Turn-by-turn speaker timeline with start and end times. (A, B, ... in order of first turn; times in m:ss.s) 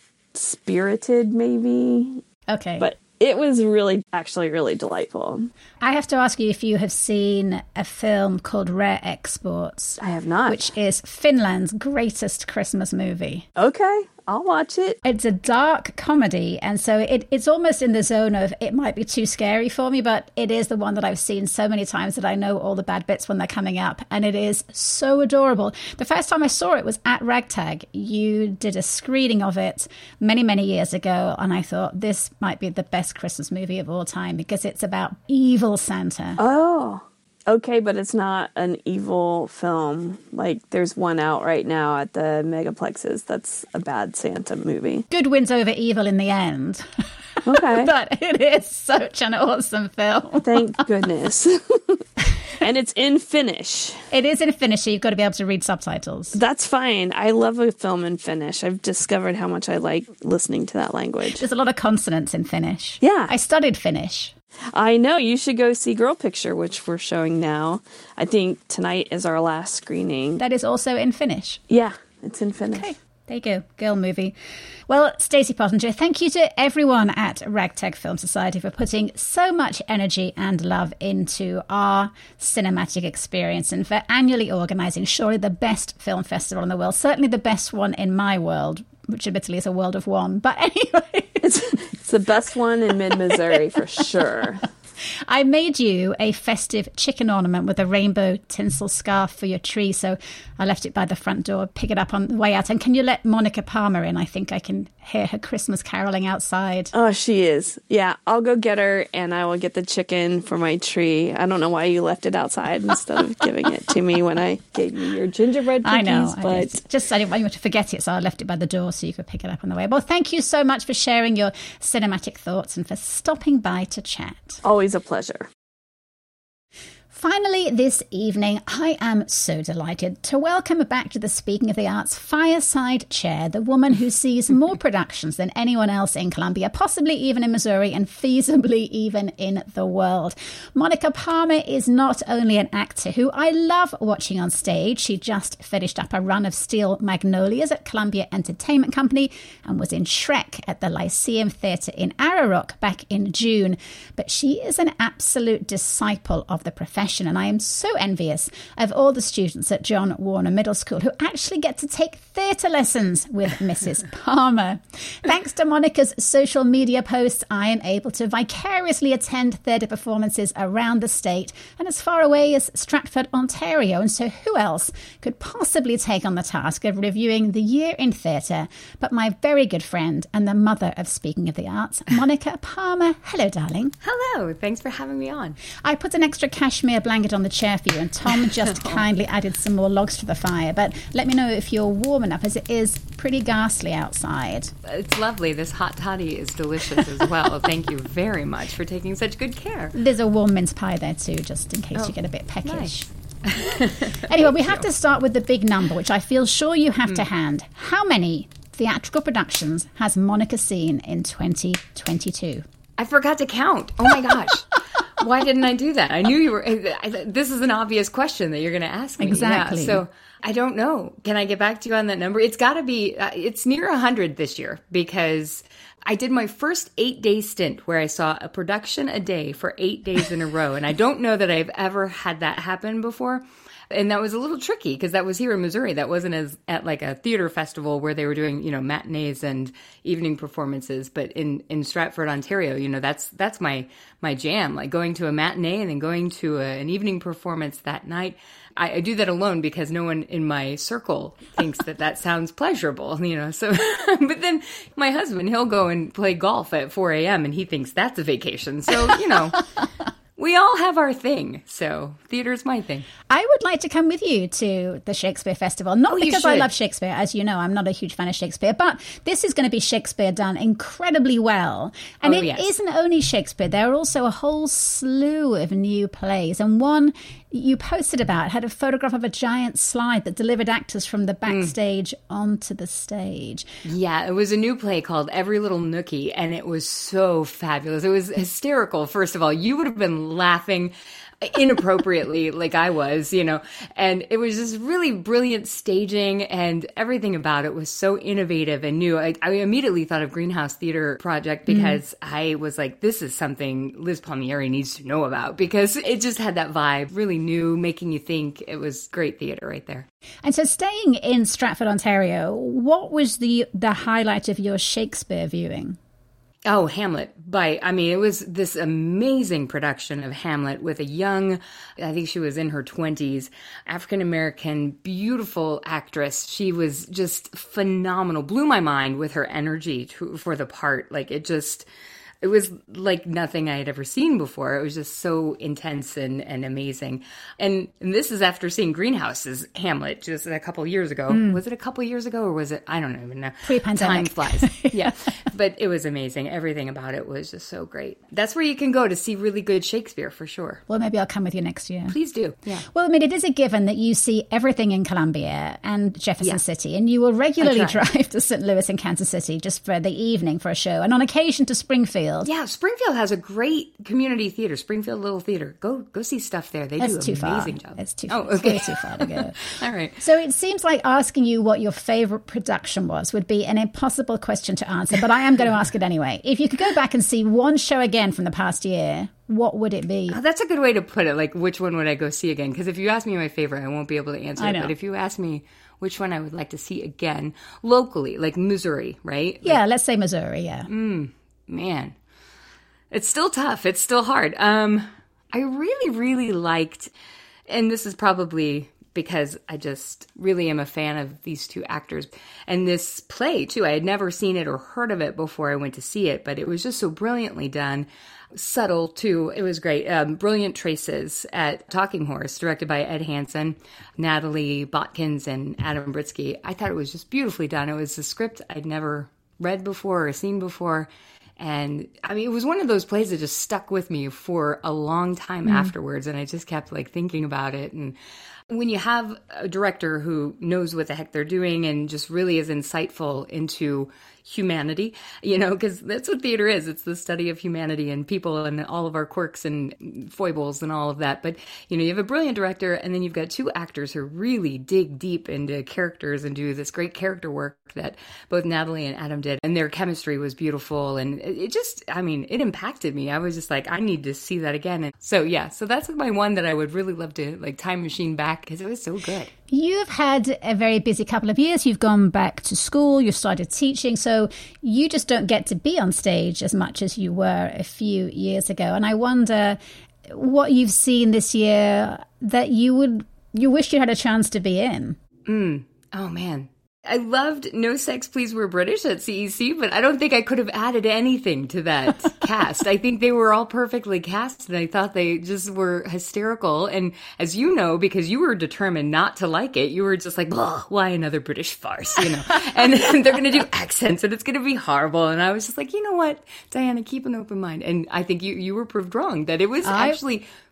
0:00.3-0:02.2 A
0:02.5-0:02.9 B
0:02.8-0:05.5 A
0:05.8-0:13.5 B
0:10.0-0:10.7 A
0:13.6-0:15.0 A
0:15.0-0:36.4 B
0:36.4-0:45.1 A
0:45.1-0:46.8 B
0:47.4-0:50.7 B
0:47.5-0:47.9 A
0:50.4-0:52.0 A
0:52.6-0:54.1 A
0:54.1-0:56.4 B
0:56.3-1:01.4 A
1:01.3-1:04.3 B
1:03.0-1:03.3 A
1:04.7-1:10.4 A
1:10.4-1:11.6 B
1:11.7-1:12.9 A
1:12.8-1:14.3 B
1:14.9-1:31.6 B
1:31.4-1:34.6 A
1:35.3-1:46.9 B
1:46.9-1:56.8 A
1:55.8-2:04.6 B
2:04.6-2:05.5 A
2:07.1-3:04.0 B
3:04.0-3:05.6 C
3:05.8-3:14.7 B
3:14.8-3:20.0 C
3:20.0-3:23.1 B
3:22.6-3:22.9 C
3:23.4-3:24.8 C
3:24.2-3:32.6 B
3:33.0-4:19.6 C
3:39.2-3:40.0 B
4:20.4-4:23.1 C
4:23.3-4:43.7 B
4:26.1-4:26.7 C
4:32.2-4:32.7 C
4:41.5-4:41.7 C
4:43.8-5:10.1 C
5:01.7-5:02.0 B
5:10.4-5:16.0 B
5:16.7-5:31.9 C
5:32.4-5:50.8 C
5:41.3-5:41.6 B
5:43.6-5:45.1 B
5:50.9-5:52.2 B
5:52.1-5:52.9 C
5:52.9-6:02.5 B
5:57.6-5:58.0 C
6:02.4-6:10.2 C
6:07.0-6:09.6 B
6:10.2-6:20.4 B
6:20.3-6:29.8 C
6:24.6-6:24.9 B
6:29.6-6:30.9 B
6:30.9-6:32.1 C
6:33.1-6:37.1 C
6:37.7-7:08.2 C
7:05.7-7:05.9 B
7:08.7-7:39.5 C
7:39.7-7:55.2 B
7:55.5-8:20.5 C
8:19.8-8:20.2 B